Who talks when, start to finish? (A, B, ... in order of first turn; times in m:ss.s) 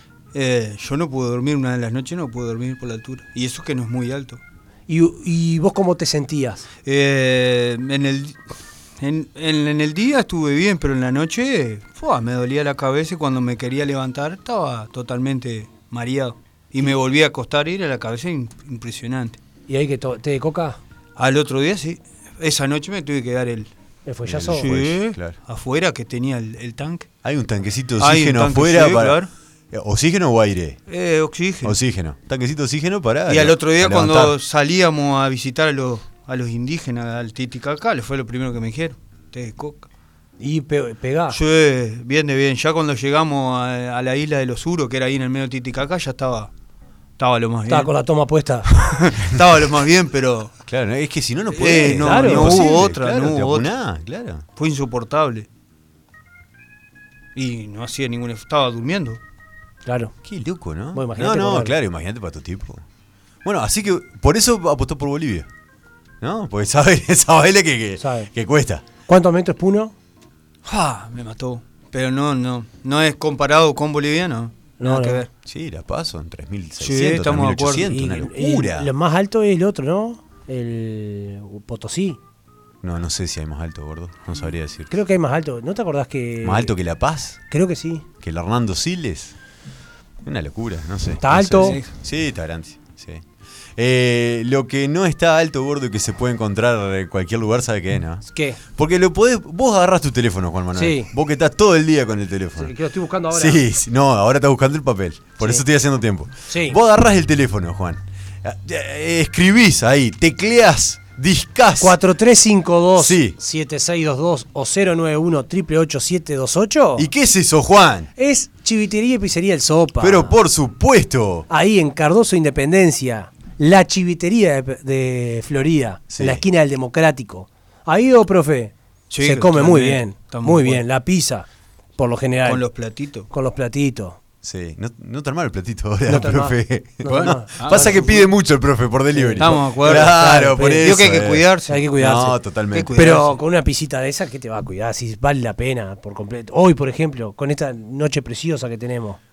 0:00.3-0:04.4 A
0:04.9-0:06.6 B
0:06.8-0:08.4 A
0:09.0-0:19.4 A
0:19.7-0:20.8 B
0:21.2-0:23.7 A
0:24.0-0:24.7 B
0:24.2-0:25.4 C
0:24.5-0:27.1 A
0:27.2-0:29.2 C
0:28.0-0:29.3 A
0:29.7-0:30.8 C
0:30.9-0:31.8 A
0:31.6-0:34.4 C
0:33.3-0:39.8 A
0:40.4-0:41.4 B
0:41.3-0:46.5 A
0:47.2-0:47.9 A
0:47.7-0:48.7 B
0:48.7-0:50.5 A
0:50.7-0:54.4 C
0:51.5-0:53.7 A
0:52.0-0:52.6 B
0:54.6-0:55.5 A
0:57.4-0:59.2 A
0:59.8-1:00.1 B
1:00.2-1:02.8 C
1:00.9-1:01.8 B
1:03.4-1:05.5 C
1:06.2-1:08.8 C
1:08.0-1:08.3 B
1:09.1-1:09.9 B
1:10.6-1:15.3 A
1:14.8-1:15.2 B
1:15.4-1:18.9 C
1:16.8-1:17.9 A
1:17.9-1:22.2 B
1:22.8-1:24.9 C
1:24.9-1:26.7 B
1:26.4-1:27.4 C
1:27.5-1:28.0 B
1:28.2-1:29.3 C
1:30.2-1:33.2 C
1:31.2-1:31.8 B
1:31.6-1:31.9 A
1:33.8-1:38.2 C
1:38.2-1:38.6 B
1:38.8-1:42.7 C
1:40.7-1:41.1 B
1:42.6-1:43.6 B
1:43.3-1:52.0 C
1:46.5-1:46.8 B
1:51.8-1:57.1 B
1:53.0-1:53.4 C
1:57.0-1:58.1 C
1:58.2-2:00.4 B
2:00.0-2:01.5 C
2:01.5-2:12.6 B
2:06.1-2:06.4 C
2:09.1-2:10.8 A
2:12.4-2:13.3 A
2:13.3-2:14.2 B
2:14.4-2:23.0 C
2:16.1-2:18.1 B
2:17.2-2:18.2 A
2:19.1-2:21.0 B
2:19.4-2:20.2 A
2:20.8-2:21.8 A
2:21.7-2:22.4 B
2:22.7-2:23.4 A
2:22.9-2:29.2 B